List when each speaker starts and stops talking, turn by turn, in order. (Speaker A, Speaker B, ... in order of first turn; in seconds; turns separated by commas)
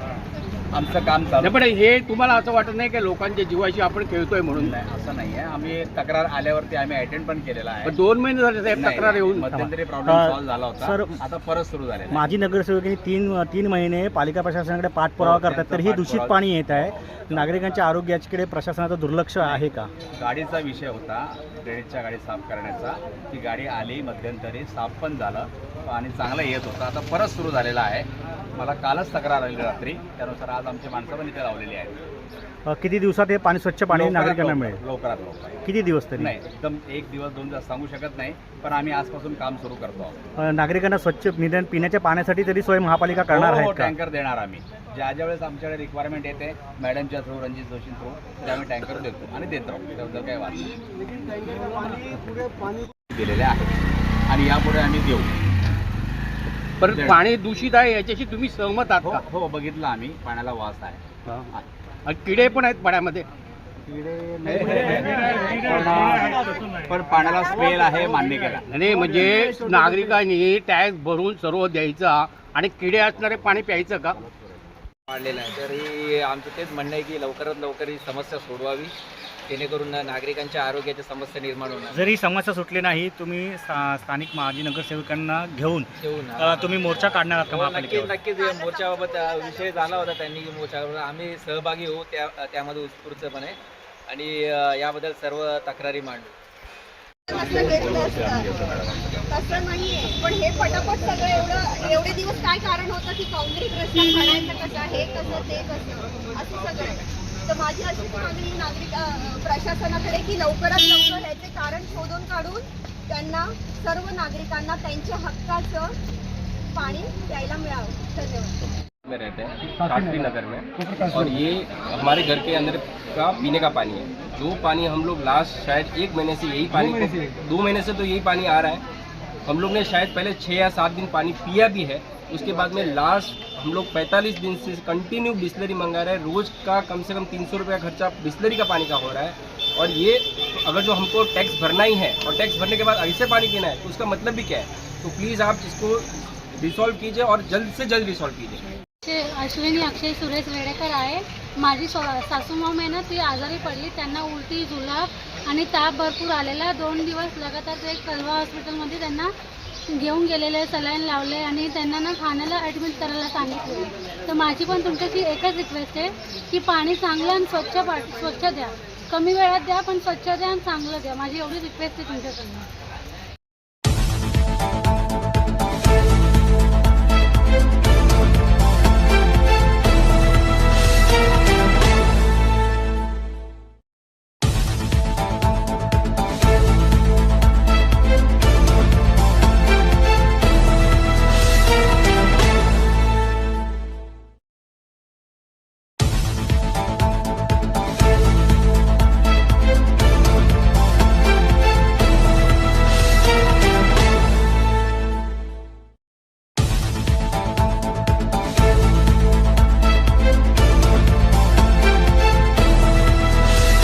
Speaker A: 0.7-1.6, Speaker B: 1.4-4.8, Speaker A: 4.5-8.0, Speaker B: 7.8-9.5, Speaker A: 8.7-12.2, Speaker C: 9.5-11.2, Speaker C: 12.1-19.9, Speaker A: 15.2-17.8, Speaker A: 19.4-32.0, Speaker C: 32.7-34.8, Speaker A: 33.9-35.6, Speaker C: 35.6-36.3, Speaker A: 36.2-40.2, Speaker C: 40.4-43.9, Speaker A: 43.3-50.8, Speaker A: 51.6-52.1, Speaker A: 53.1-55.3, Speaker B: 56.8-59.2, Speaker A: 56.9-57.2, Speaker A: 59.0-61.0, Speaker B: 62.0-63.2, Speaker A: 64.4-68.6, Speaker B: 68.7-74.2, Speaker D: 75.1-78.9, Speaker D: 79.5-82.0, Speaker C: 81.9-88.2, Speaker D: 86.0-86.8, Speaker D: 87.5-93.5, Speaker E: 88.3-90.0, Speaker D: 94.1-96.3, Speaker E: 97.3-98.6, Speaker A: 98.0-99.0, Speaker E: 99.3-115.9, Speaker E: 116.7-118.5, Speaker F: 119.0-128.8, Speaker F: 129.4-148.6, Speaker G: 149.0-159.3, Speaker G: 159.9-172.7